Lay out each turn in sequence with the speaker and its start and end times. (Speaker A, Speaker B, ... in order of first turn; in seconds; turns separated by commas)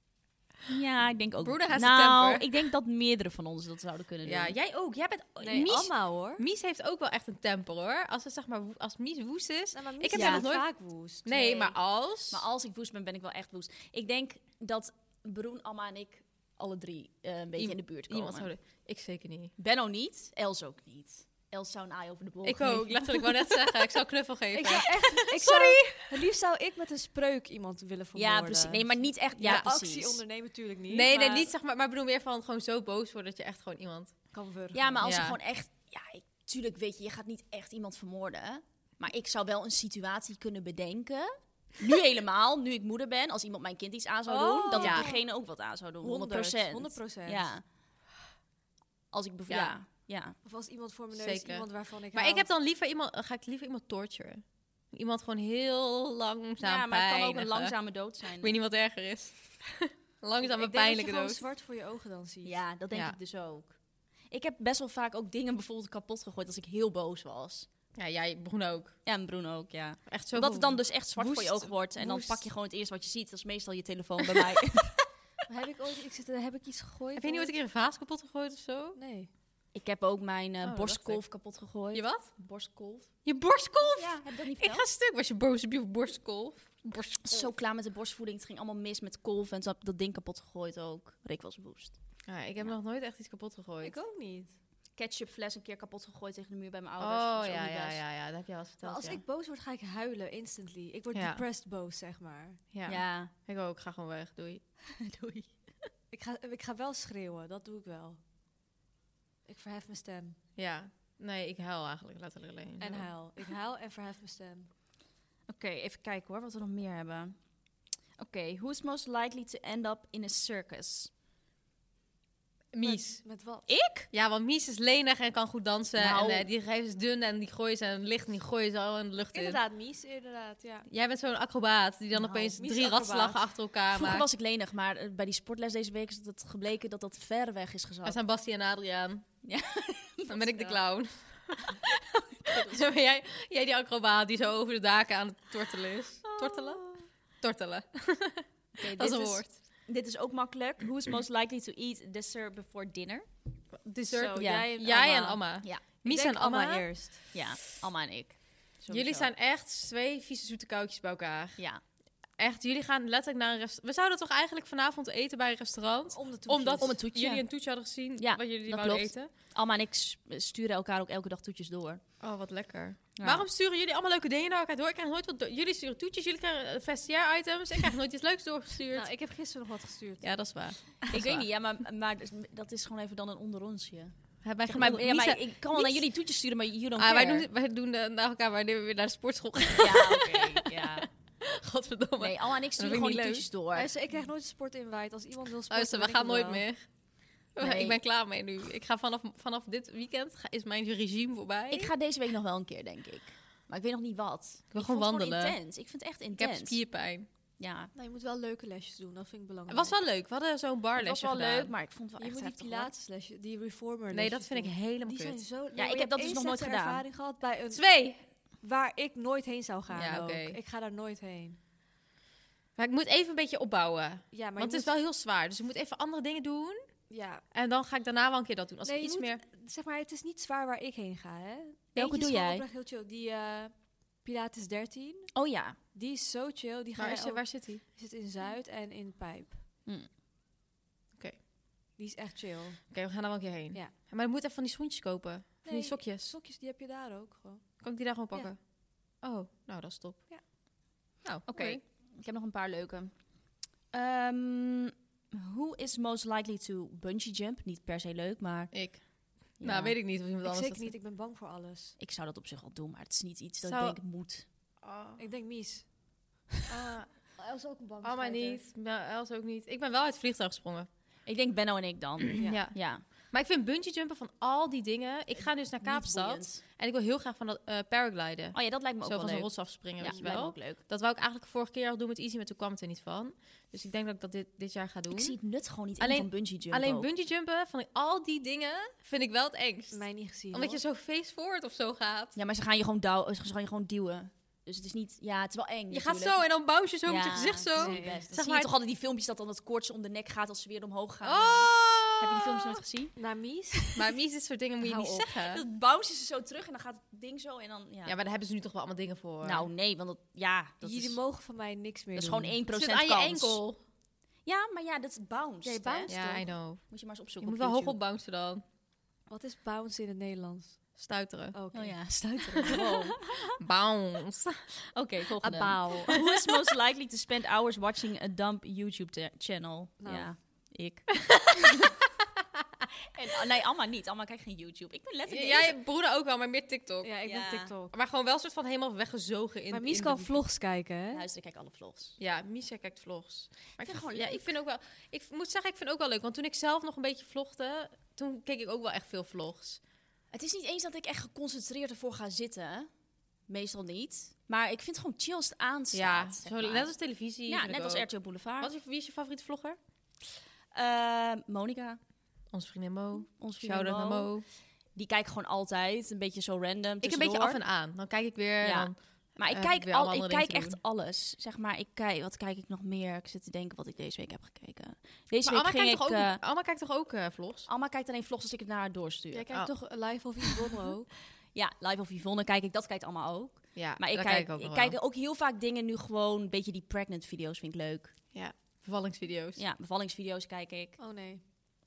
Speaker A: 0.7-4.5, Speaker B: 1.4-2.6, Speaker B: 4.2-10.7, Speaker C: 5.4-6.4, Speaker C: 9.7-11.3, Speaker A: 10.1-10.5, Speaker B: 11.2-12.4, Speaker A: 11.3-11.8, Speaker A: 12.3-18.5, Speaker B: 17.6-19.5, Speaker A: 19.6-23.4, Speaker B: 22.4-26.2, Speaker C: 24.5-31.5, Speaker A: 28.1-30.2, Speaker B: 29.4-29.7, Speaker B: 30.9-34.3, Speaker C: 34.3-35.0, Speaker A: 34.7-47.6, Speaker B: 35.0-35.4, Speaker C: 44.3-45.2, Speaker B: 44.7-45.1, Speaker C: 46.0-47.5, Speaker A: 49.1-50.4, Speaker B: 49.5-49.8, Speaker C: 50.4-52.5, Speaker B: 51.1-57.8, Speaker A: 56.6-58.6, Speaker B: 58.4-61.4, Speaker C: 60.4-62.6, Speaker A: 62.5-67.7, Speaker B: 62.9-63.2, Speaker B: 68.0-69.0, Speaker A: 69.1-75.0, Speaker B: 70.1-72.4, Speaker C: 75.5-77.5, Speaker B: 77.2-79.0, Speaker C: 79.0-79.3, Speaker A: 79.7-83.2, Speaker B: 80.6-81.3, Speaker B: 81.9-82.3, Speaker B: 83.2-87.5, Speaker A: 83.9-84.9, Speaker A: 87.2-92.0, Speaker B: 92.3-94.0, Speaker C: 93.8-94.5, Speaker A: 95.0-98.0, Speaker B: 97.0-99.2, Speaker C: 98.8-102.6, Speaker B: 101.1-101.4, Speaker B: 102.7-104.6, Speaker A: 102.9-103.3, Speaker A: 105.0-105.7, Speaker C: 106.1-108.2, Speaker C: 109.5-110.4, Speaker B: 110.6-113.1, Speaker C: 112.8-114.7, Speaker A: 115.5-117.4, Speaker A: 118.2-121.1, Speaker B: 122.7-123.2, Speaker C: 122.8-123.7, Speaker A: 123.7-124.1, Speaker B: 124.1-129.6, Speaker A: 126.0-126.5, Speaker C: 129.3-130.9, Speaker B: 130.9-134.3, Speaker C: 132.2-133.4, Speaker A: 133.9-138.2, Speaker B: 138.0-139.3, Speaker A: 139.4-140.4, Speaker B: 140.3-149.6, Speaker A: 142.5-142.9, Speaker A: 148.8-153.3, Speaker B: 153.7-157.3, Speaker C: 154.1-157.2, Speaker A: 154.4-154.7, Speaker A: 157.3-159.3, Speaker B: 158.9-161.7, Speaker B: 162.4-169.3, Speaker C: 166.1-167.0, Speaker A: 166.8-167.6, Speaker A: 168.2-172.0, Speaker B: 172.2-179.1, Speaker A: 173.2-173.5, Speaker C: 178.9-180.4, Speaker B: 180.2-181.4, Speaker A: 181.1-187.5, Speaker B: 184.4-186.1, Speaker B: 187.0-193.5, Speaker A: 189.8-191.1, Speaker A: 192.2-193.9, Speaker C: 193.7-196.7, Speaker B: 195.7-201.9, Speaker A: 197.6-198.0, Speaker A: 201.7-206.9, Speaker B: 204.7-205.6, Speaker B: 206.4-207.3, Speaker A: 207.6-207.9, Speaker C: 207.9-210.0, Speaker B: 209.7-211.7, Speaker A: 211.0-212.9, Speaker C: 212.2-221.6, Speaker B: 214.1-215.4, Speaker A: 215.8-217.1, Speaker B: 217.7-218.2, Speaker B: 219.9-220.6, Speaker B: 222.8-226.8, Speaker C: 224.3-224.9, Speaker C: 227.1-227.4, Speaker B: 227.5-229.4, Speaker C: 228.8-235.4, Speaker A: 231.9-232.6, Speaker A: 235.3-235.8, Speaker C: 235.9-239.6, Speaker B: 237.0-237.8, Speaker C: 242.0-242.9, Speaker B: 242.9-246.3, Speaker C: 245.6-247.8, Speaker B: 247.8-250.3, Speaker B: 251.2-251.8, Speaker A: 251.5-259.0, Speaker B: 258.7-260.9, Speaker A: 259.6-260.0, Speaker C: 260.4-262.0, Speaker A: 262.0-264.5, Speaker B: 263.6-264.0, Speaker B: 264.8-265.2, Speaker C: 265.2-265.9, Speaker B: 266.7-267.4, Speaker C: 267.4-268.7, Speaker B: 268.0-270.9, Speaker A: 271.2-273.0, Speaker B: 272.4-285.4, Speaker A: 275.3-276.6, Speaker A: 278.5-280.8, Speaker A: 285.1-287.1, Speaker B: 286.0-292.4, Speaker C: 289.9-290.8, Speaker A: 292.4-296.4, Speaker B: 295.9-298.7, Speaker A: 297.1-303.2, Speaker C: 297.8-298.2, Speaker B: 301.2-302.7, Speaker C: 303.2-303.9, Speaker B: 304.0-305.6, Speaker A: 305.3-308.2, Speaker B: 308.1-309.7, Speaker A: 309.4-311.2, Speaker C: 310.8-312.6, Speaker A: 312.1-313.6, Speaker B: 312.7-313.8, Speaker A: 314.4-316.2, Speaker C: 315.6-316.5, Speaker B: 316.1-316.9, Speaker A: 316.9-317.9, Speaker B: 317.4-318.6, Speaker C: 319.3-320.9, Speaker B: 321.0-321.6, Speaker C: 321.5-323.0, Speaker A: 321.7-323.2, Speaker B: 323.5-324.6, Speaker A: 324.9-331.6, Speaker C: 325.4-326.2, Speaker C: 330.0-330.7, Speaker A: 333.1-335.8, Speaker B: 335.3-337.1, Speaker C: 337.0-337.9, Speaker A: 337.2-337.7, Speaker B: 337.9-340.4, Speaker C: 339.7-341.2, Speaker A: 341.1-342.1, Speaker B: 342.2-349.8, Speaker A: 343.8-344.5, Speaker A: 350.3-352.9, Speaker A: 353.5-358.7, Speaker B: 355.9-359.8, Speaker A: 360.7-362.0, Speaker B: 362.5-364.4, Speaker A: 363.4-367.6, Speaker B: 367.0-370.8, Speaker A: 368.6-376.4, Speaker B: 375.4-377.7, Speaker A: 377.7-379.5, Speaker C: 379.3-381.1, Speaker A: 381.5-388.2, Speaker B: 383.8-385.0, Speaker B: 388.3-389.6, Speaker A: 389.6-391.0, Speaker C: 391.0-391.4